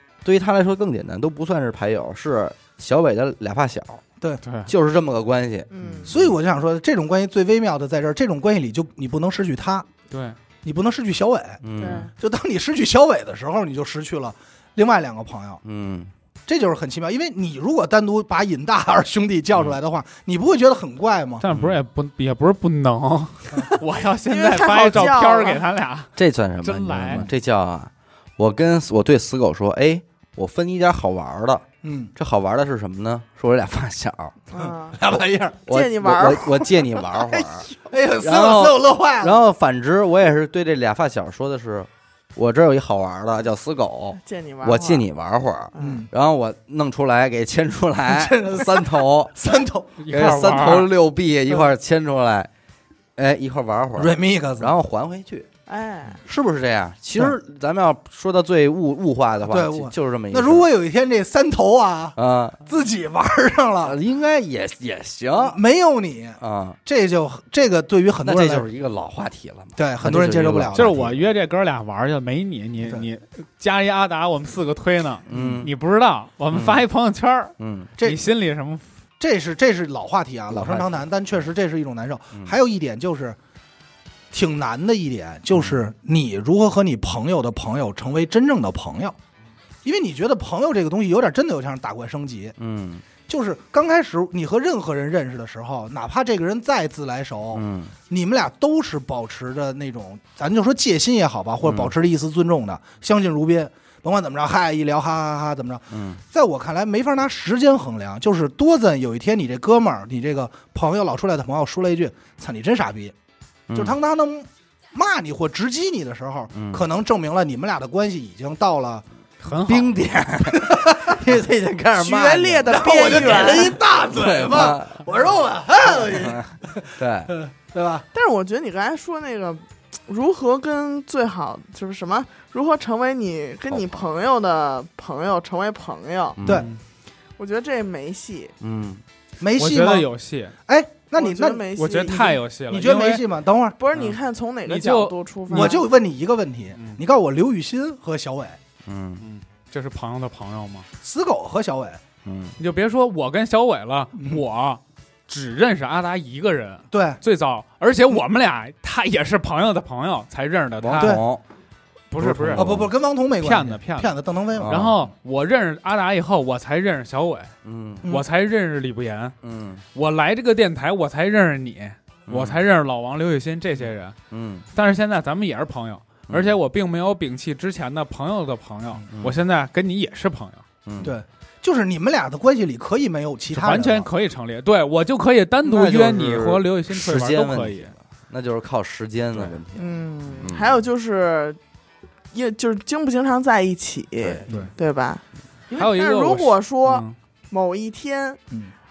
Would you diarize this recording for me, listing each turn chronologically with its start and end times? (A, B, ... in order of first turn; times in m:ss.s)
0:00.2-0:04.0 A
0:04.4-0:04.7 B
0:04.6-0:06.3 A
0:05.7-0:06.1 C
0:06.0-0:09.9 D
0:10.1-0:10.4 B
0:10.6-0:15.6 D
0:11.6-0:12.1 A
0:11.8-0:12.1 C
0:15.6-0:16.1 A
0:16.5-0:21.4 D
0:21.4-0:26.1 B
0:21.5-0:21.8 A
0:24.3-0:25.6 C
0:26.2-0:34.4 A
0:26.6-0:27.3 B
0:31.8-0:32.1 D
0:34.5-0:35.0 C
0:34.5-0:35.6 D
0:35.7-0:37.7 A
0:35.7-0:37.7 C
0:37.8-0:39.4 D
0:38.2-0:49.4 A
0:44.2-0:45.0 C
0:45.7-0:46.0 C
0:45.8-0:46.1 D
0:48.1-0:49.9 D
0:50.0-0:50.9 B
0:50.1-0:52.5 A
0:53.2-0:55.5 A
0:54.0-0:54.7 D
0:55.7-0:56.2 C
0:56.2-1:00.6 A
0:59.5-1:04.0 D
1:02.2-1:02.6 A
1:03.8-1:05.6 A
1:05.4-1:08.6 D
1:06.4-1:06.8 A
1:08.2-1:11.1 A
1:09.8-1:11.1 D
1:10.7-1:18.9 B
1:15.3-1:15.7 A
1:15.3-1:15.7 D
1:16.5-1:16.8 A
1:17.6-1:17.9 A
1:18.0-1:18.2 D
1:19.2-1:23.4 D
1:20.5-1:21.1 A
1:24.3-1:29.2 D
1:25.5-1:25.8 A
1:29.8-1:32.6 D
1:32.6-1:33.0 A
1:33.3-1:53.1 D
1:37.5-1:37.9 A
1:41.6-1:41.9 A
1:45.9-1:46.2 A
1:53.7-1:54.0 A
1:53.7-1:59.0 D
1:56.5-1:56.8 A
1:59.4-2:00.0 B
1:59.6-2:05.1 A
2:00.5-2:01.4 D
2:02.0-2:03.8 C
2:02.6-2:08.0 D
2:06.0-2:07.3 A
2:08.1-2:16.4 C
2:13.7-2:14.0 A
2:16.4-2:16.7 A
2:16.5-2:16.8 B
2:17.4-2:18.5 C
2:18.6-2:19.0 A
2:19.4-2:20.1 D
2:19.6-2:20.5 B
2:20.6-2:23.8 D
2:21.1-2:22.2 C
2:21.7-2:23.2 B
2:23.8-2:25.8 C
2:23.9-2:25.8 B
2:25.5-2:28.6 D
2:28.8-2:29.2 A
2:29.2-2:30.9 B
2:31.0-2:32.0 D
2:32.2-2:32.6 A
2:32.6-2:41.2 B
2:34.2-2:34.4 D
2:36.9-2:37.2 D
2:40.8-2:41.4 A
2:41.0-2:41.2 D
2:42.1-2:42.7 B
2:42.2-2:42.9 A
2:42.5-2:44.8 D
2:43.4-2:44.1 B
2:44.6-2:45.0 A
2:44.6-2:47.5 B
2:47.6-2:48.1 A
2:48.0-2:49.4 B
2:49.4-2:49.8 A
2:49.9-2:54.2 B
2:52.3-2:52.6 A
2:54.3-2:54.6 A
2:54.7-3:00.6 B
2:56.3-2:56.6 A
2:59.1-2:59.4 A
3:00.8-3:01.2 A
3:01.0-3:04.1 D
3:03.5-3:07.9 B
3:05.6-3:10.8 A
3:09.3-3:09.6 B
3:09.7-3:11.6 C
3:12.3-3:15.2 C
3:14.2-3:14.4 A
3:15.7-3:15.9 D
3:15.7-3:17.1 B
3:15.8-3:18.4 C